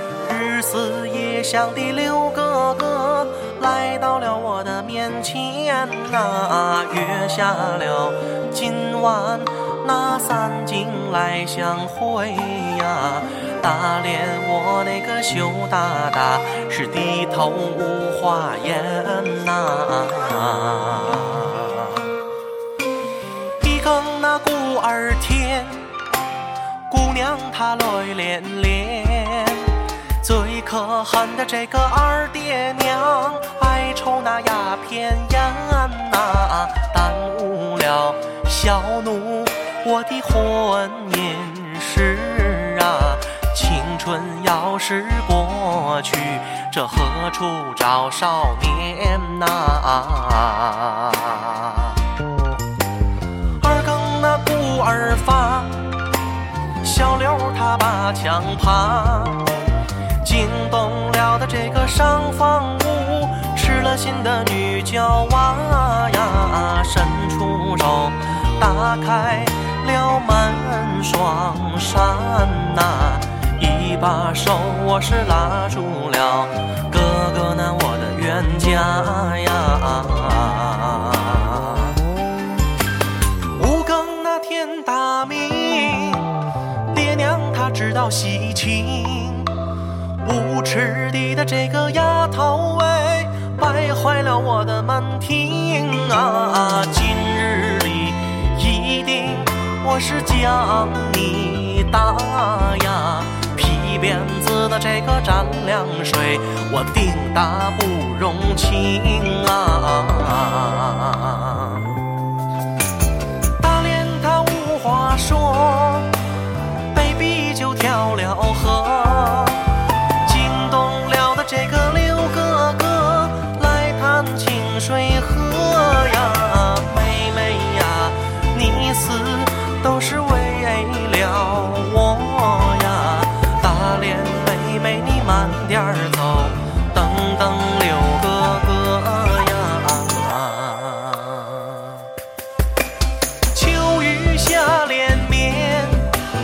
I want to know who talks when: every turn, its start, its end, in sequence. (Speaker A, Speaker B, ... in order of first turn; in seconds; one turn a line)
Speaker A: 0.2-22.1
Speaker A: 23.6-25.9
Speaker A: 26.9-52.0
Speaker A: 53.6-55.8
Speaker A: 56.8-59.6
Speaker A: 60.2-82.0
Speaker A: 83.5-86.3
Speaker A: 86.9-89.5
Speaker A: 90.2-111.9
Speaker A: 113.6-116.1
Speaker A: 116.9-119.6
Speaker A: 120.2-142.1
Speaker A: 143.5-146.1